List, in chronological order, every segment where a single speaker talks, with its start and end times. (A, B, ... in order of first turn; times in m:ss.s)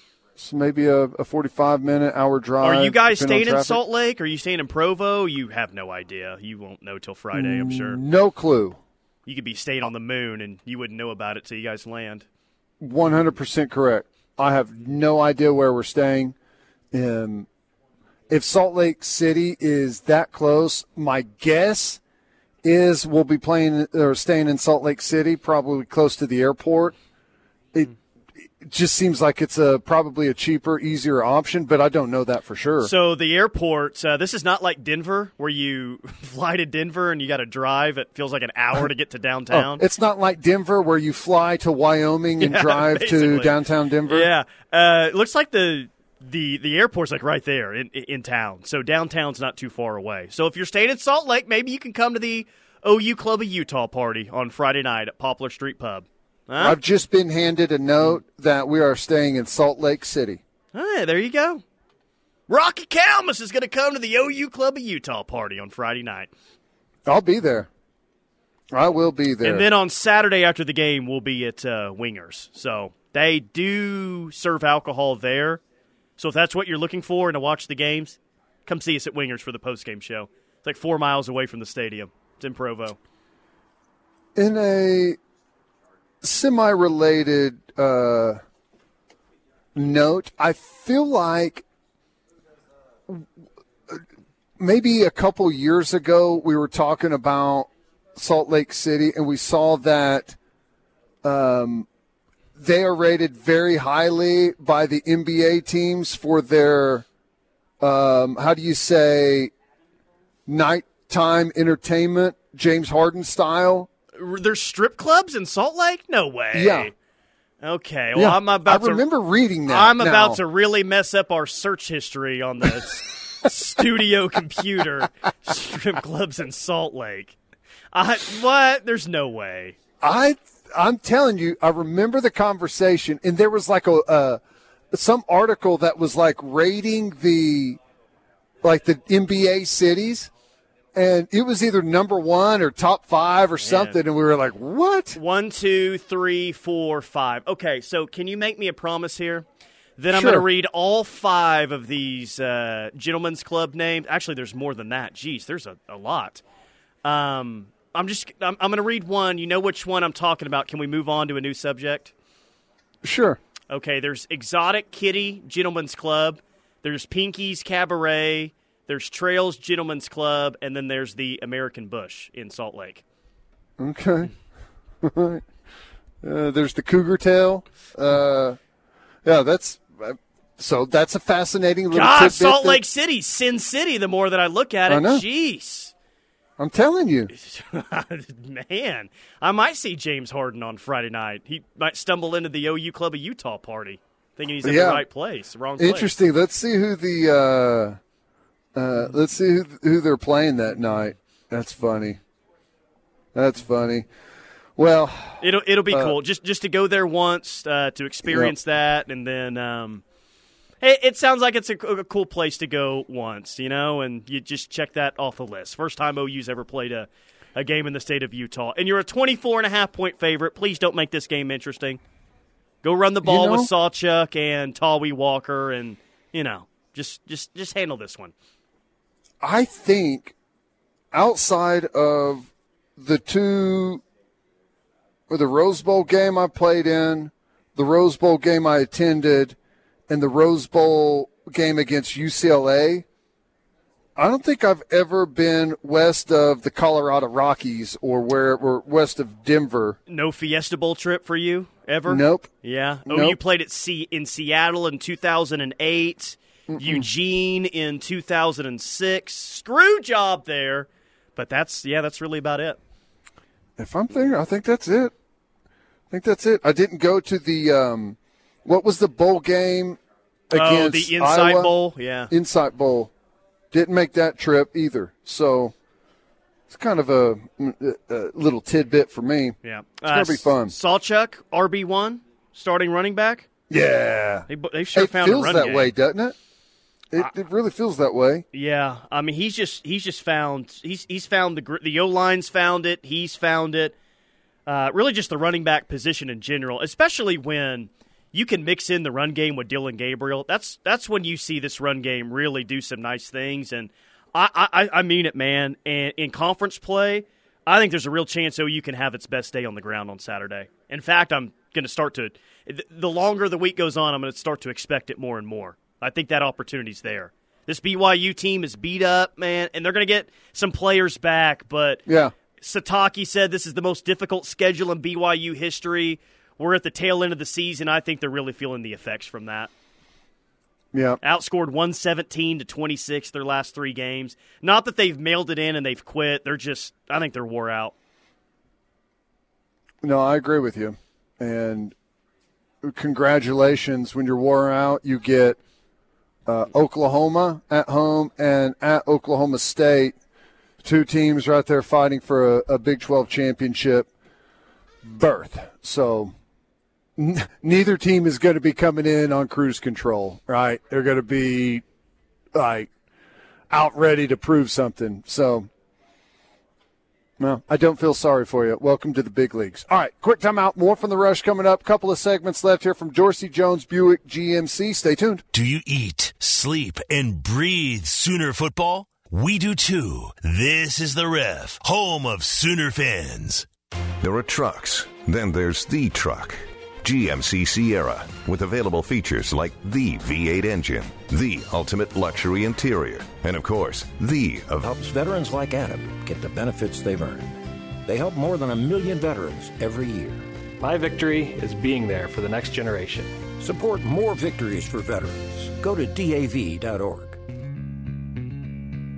0:00.4-0:03.8 A
0:02.6-0:08.0 B
0:07.3-0:08.8 A
0:09.2-0:12.2 B
0:12.8-0:16.3 A
0:16.9-0:17.5 A
0:18.3-0:22.0 A
0:22.6-0:26.9 A
0:28.6-0:32.9 A
0:32.8-0:39.8 B
0:39.5-0:44.3 A
0:42.4-0:43.6 B
0:44.1-0:56.8 B
0:56.6-1:00.4 A
1:00.7-1:01.6 B
1:02.5-1:06.3 B
1:07.0-1:07.7 A
1:08.7-1:09.6 A
1:09.4-1:15.6 B
1:16.2-1:23.0 B
1:24.4-1:25.2 A
1:26.2-1:28.4 A
1:29.7-1:31.6 A
1:34.6-1:40.4 A
1:41.2-1:41.9 A
1:42.6-1:47.0 A
1:47.8-1:49.5 A
1:50.5-1:53.9 A
1:54.2-1:56.9 B
1:56.5-1:56.9 A
1:57.6-1:59.0 B
1:58.1-2:00.4 A
1:59.7-2:07.4 B
2:07.9-2:09.8 B
2:10.0-2:14.4 A
2:14.9-2:17.8 A
2:18.6-2:20.3 A
2:20.9-2:25.2 A
2:23.6-2:24.0 B
2:25.1-2:29.4 B
2:30.0-2:36.4 B
2:30.1-2:30.4 A
2:37.0-2:42.1 B
2:43.0-2:43.4 A
2:43.7-2:53.0 B
2:53.8-2:54.3 A
2:55.0-2:55.4 A
2:56.2-2:58.6 A
2:59.2-3:02.8 A
3:01.9-3:05.9 B
3:04.9-3:05.2 A
3:06.6-3:07.3 A
3:07.3-3:16.1 B
3:14.6-3:15.0 A
3:15.8-3:18.0 A
3:18.7-3:22.2 A
3:23.3-3:24.1 A
3:24.8-3:26.1 A
3:25.4-3:30.0 B
3:28.2-3:28.5 A
3:30.8-3:42.0 B
3:42.8-3:48.3 B
3:43.2-3:43.7 A
3:49.4-3:50.3 A
3:51.1-3:54.0 A
3:55.3-3:59.6 A
4:00.1-4:03.0 A
4:04.2-4:10.0 A
4:10.1-4:22.8 B
4:12.1-4:12.5 A
4:13.0-4:13.4 A
4:16.7-4:17.0 A
4:23.8-4:25.1 A
4:26.1-4:30.0 A
4:30.5-4:31.7 A
4:30.5-4:32.3 B
4:32.3-4:33.1 A
4:33.7-4:35.7 A
4:36.7-4:39.6 A
4:39.6-4:43.4 B
4:40.1-4:40.7 A
4:43.7-4:46.4 A
4:44.5-4:45.9 B
4:47.1-4:48.4 A
4:48.5-4:53.9 B
4:54.6-5:22.0 B
5:22.1-5:22.3 A
5:22.6-5:29.7 B
5:30.9-5:31.2 A
5:31.2-5:37.9 B
5:40.0-5:41.9 A
5:42.8-5:45.6 A
5:46.5-5:50.1 A
5:50.8-5:54.1 A
5:55.0-5:56.3 A
5:57.2-6:01.8 A
6:02.5-6:02.9 A
6:03.7-6:05.7 A
6:07.4-6:15.4 A
6:15.5-6:23.6 C
6:24.2-6:34.9 D
6:34.8-6:37.5 E
6:38.0-6:40.4 E
6:40.8-6:43.3 F
6:43.5-6:47.4 E